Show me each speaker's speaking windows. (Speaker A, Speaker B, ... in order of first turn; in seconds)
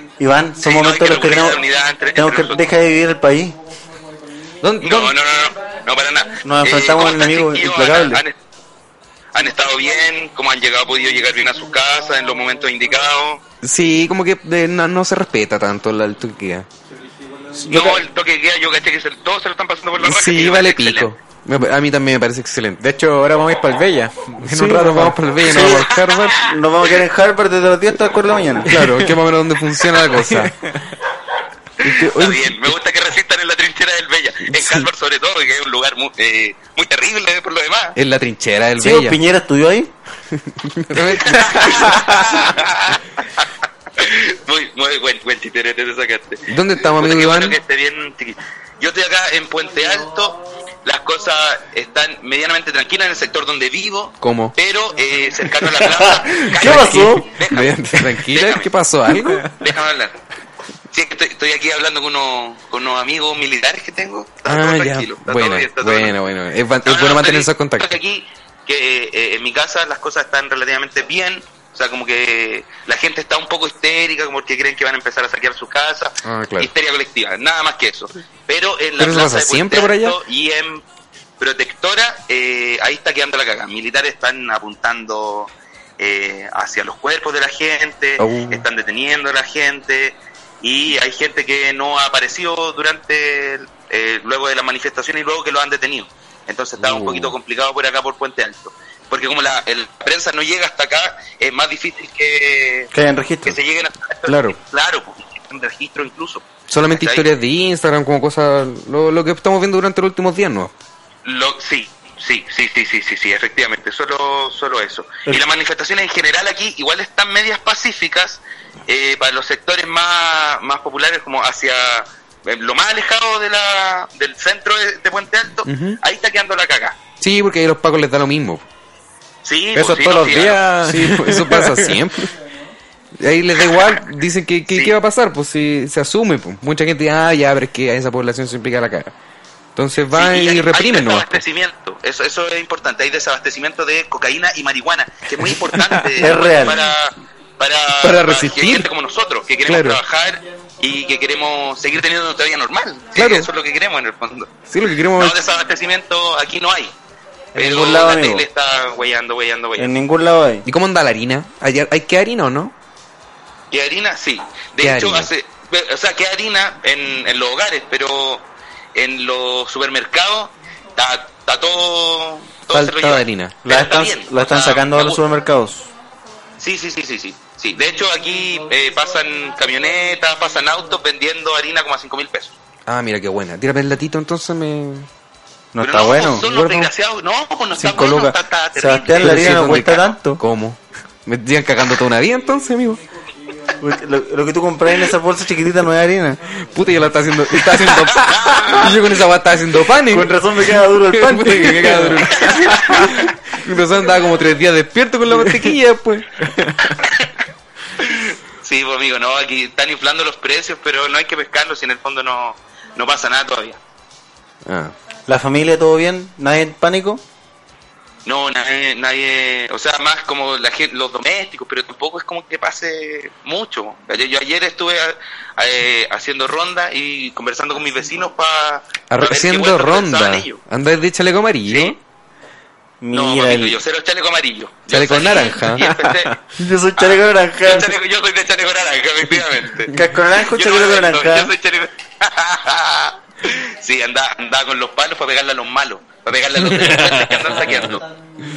Speaker A: 0.2-1.6, 2.1-3.6, 6.4-8.2, 17.6-18.0, 25.4-28.8, 38.8-39.9, 55.7-57.3, 102.9-103.6, 146.2-146.9, 157.6-158.5, 159.8-160.6, 173.6-175.9, 185.7-186.9, 187.8-190.4, 193.8-196.4, 200.1-202.1, 215.3-217.2, 233.0-233.8, 236.6-237.9, 239.9-241.5
Speaker B: 0.6-2.6, 4.8-8.3, 9.3-13.4, 17.6-21.1, 25.7-26.5, 32.0-38.0, 41.1-43.5, 44.0-58.7, 59.5-60.2, 60.9-66.2, 66.8-80.8, 81.4-102.9, 103.4-107.3, 111.2-127.0, 129.4-130.7, 133.6-134.0, 134.7-135.0, 140.1-156.9, 157.6-159.9, 163.7-175.2, 176.6-182.5, 185.8-189.6, 198.2-198.9, 202.3-203.1, 208.0-213.8, 218.2-230.6, 231.7-232.0, 233.1-236.3, 237.0-248.0
Speaker C: 4.6-5.2, 13.6-16.7, 20.0-22.8, 24.4-26.4, 28.6-30.5, 31.8-32.7, 34.5-34.9, 37.9-39.2, 40.3-42.0, 46.5-47.6, 54.2-54.5, 56.5-59.5, 64.4-67.9, 76.2-76.7, 79.0-80.2, 88.2-88.6, 96.8-97.3, 104.3-104.5, 106.7-110.7, 125.6-126.0, 127.2-128.7, 130.8-132.3, 133.2-139.1, 139.8-141.4, 148.0-148.9, 149.6-150.0, 153.1-153.5, 154.6-155.4, 160.6-162.7, 164.8-165.3, 172.7-173.6, 182.9-185.1, 189.2-193.1, 196.5-206.3, 214.6-214.9, 229.1-232.0, 234.9-235.9, 246.6-248.0
Speaker D: 22.8-25.3, 28.7-29.1, 30.1-30.7, 59.2-59.5, 129.7-132.0, 206.4-206.9, 235.8-236.4